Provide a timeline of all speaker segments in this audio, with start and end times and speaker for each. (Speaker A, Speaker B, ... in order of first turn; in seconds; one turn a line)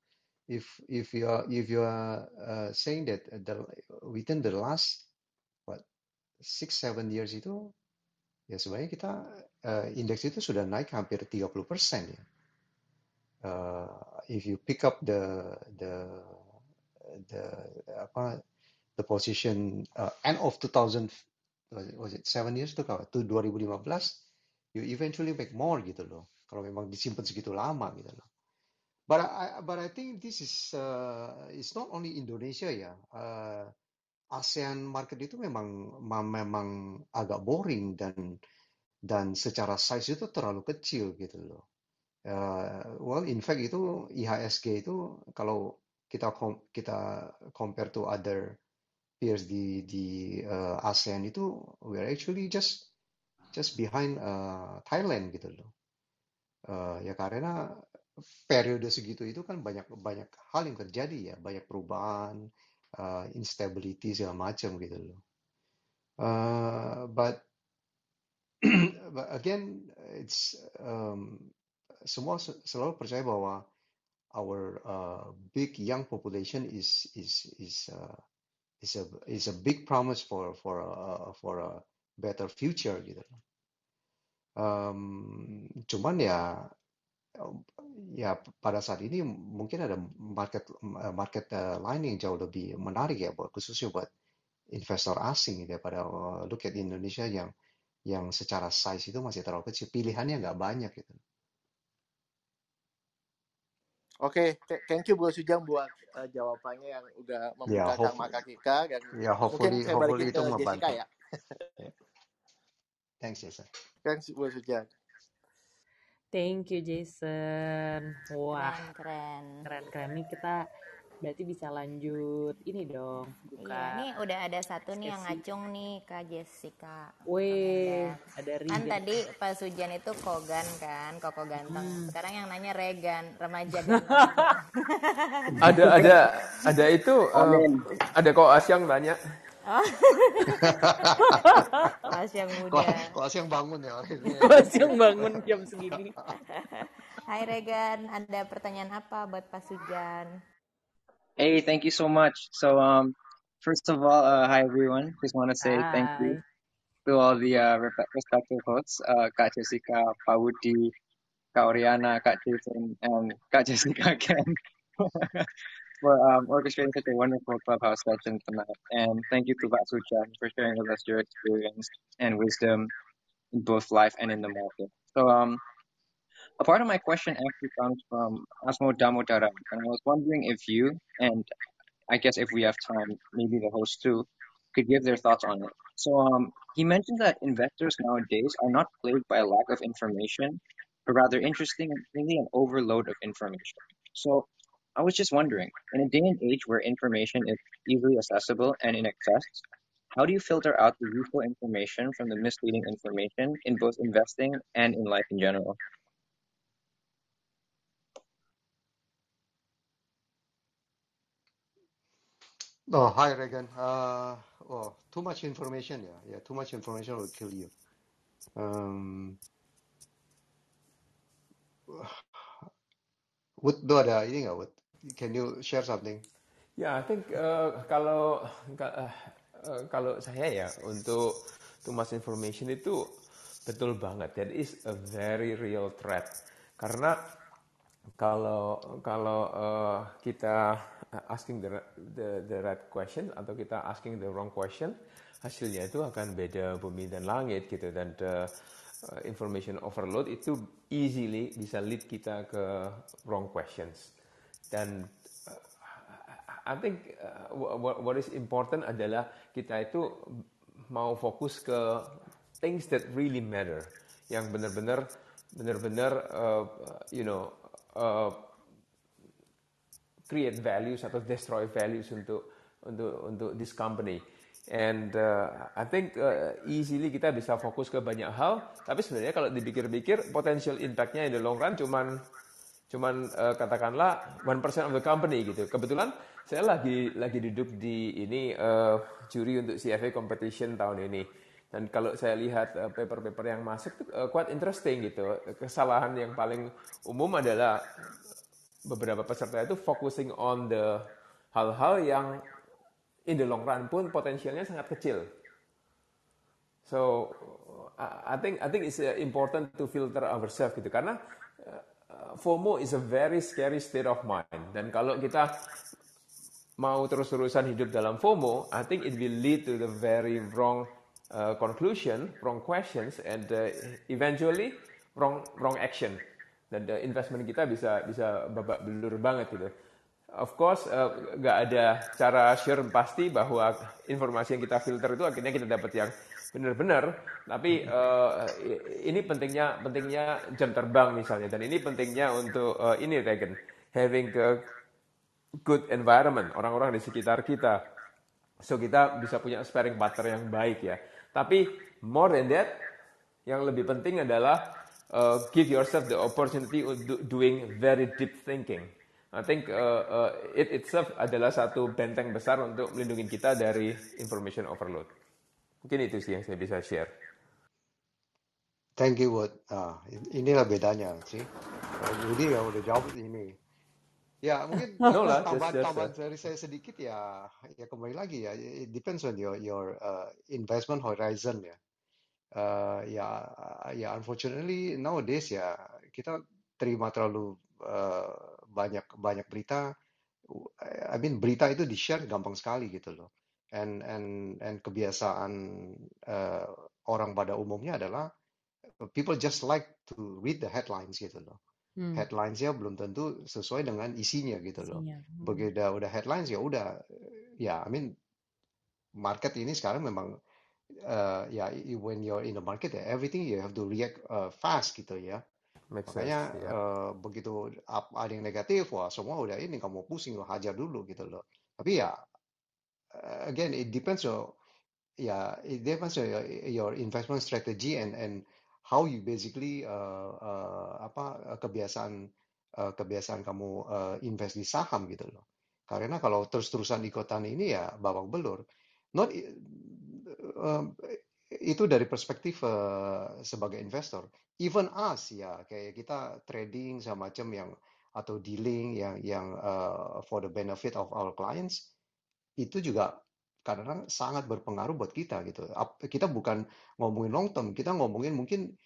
Speaker A: 0.5-5.0
Speaker A: 6.4-7.7
Speaker A: 8.5-12.2
Speaker A: 13.4-16.4
Speaker A: 17.1-18.4
Speaker A: 19.0-21.1
Speaker A: 21.7-24.2
Speaker A: 24.7-28.2
Speaker A: 29.1-33.7
Speaker A: 34.3-38.4
Speaker A: 39.1-41.6
Speaker A: 42.3-48.6
Speaker A: 49.2-52.9
Speaker A: 53.5-55.7
Speaker A: 56.7-57.6
Speaker A: 58.5-62.4
Speaker A: 63.0-65.2
Speaker A: 66.2-67.4
Speaker A: 68.6-71.5
Speaker A: 72.0-73.7
Speaker A: 74.3-78.2
Speaker A: 78.8-83.4
Speaker A: 84.6-86.7
Speaker A: 87.4-94.1
Speaker A: 94.7-97.5
Speaker A: 98.1-101.2
Speaker B: 104.2-111.1
Speaker A: 107.7-108.4
Speaker A: 109.1-111.0
Speaker A: 113.2-113.7
Speaker B: 114.0-114.9
Speaker C: 116.3-118.8
Speaker D: 118.5-119.6
Speaker C: 119.6-120.6
Speaker C: 121.2-124.0
Speaker D: 123.6-135.6
Speaker C: 125.0-125.4
Speaker C: 127.3-129.0
Speaker C: 131.7-132.1
Speaker C: 133.9-134.5
Speaker E: 135.6-139.2
Speaker C: 135.8-136.1
Speaker F: 137.3-137.8
Speaker D: 139.6-141.1
Speaker A: 140.6-141.6
Speaker C: 141.2-142.0
Speaker D: 142.0-143.2
Speaker A: 142.6-145.4
Speaker C: 144.4-146.1
Speaker D: 146.5-150.3
Speaker F: 151.4-156.4
Speaker C: 155.6-156.4
Speaker F: 157.1-160.9
Speaker F: 161.5-165.5
Speaker F: 166.0-172.9
Speaker F: 173.5-175.6
Speaker F: 176.6-181.5
Speaker F: 182.1-205.8
Speaker A: 212.9-217.7
Speaker A: 218.6-219.4
Speaker A: 221.9-222.7
Speaker A: 223.6-226.2
Speaker E: 226.8-233.0
Speaker E: 233.7-237.2
Speaker E: 238.2-248.5
Speaker E: 249.0-254.1
Speaker E: 254.7-268.5
Speaker E: 270.3-282.1
Speaker E: 282.9-297.8
Speaker E: 298.9-302.4
Speaker E: 303.3-305.2
Speaker E: 306.9-315.5
Speaker E: 316.8-329.7
Speaker E: 330.3-344.6
Speaker E: 345.6-347.8
Speaker E: 348.6-352.8
Speaker E: 353.5-365.1
Speaker E: 365.8-367.1
Speaker A: 369.0-373.6
Speaker A: 374.4-381.8
Speaker E: 375.1-376.1
Speaker A: 382.5-389.9
Speaker A: 390.5-398.3
Speaker A: 399.0-401.6
Speaker C: 402.0-402.2
Speaker A: 402.1-408.1
Speaker C: 404.8-405.7
Speaker A: 409.2-410.3
Speaker A: 411.0-415.4
Speaker E: 415.9-416.8
Speaker A: 416.1-422.2
Speaker A: 423.1-424.6
Speaker A: 425.2-432.3
Speaker A: 432.8-438.6
Speaker A: 439.1-451.8
Speaker A: 452.6-453.1
Speaker A: 453.6-458.6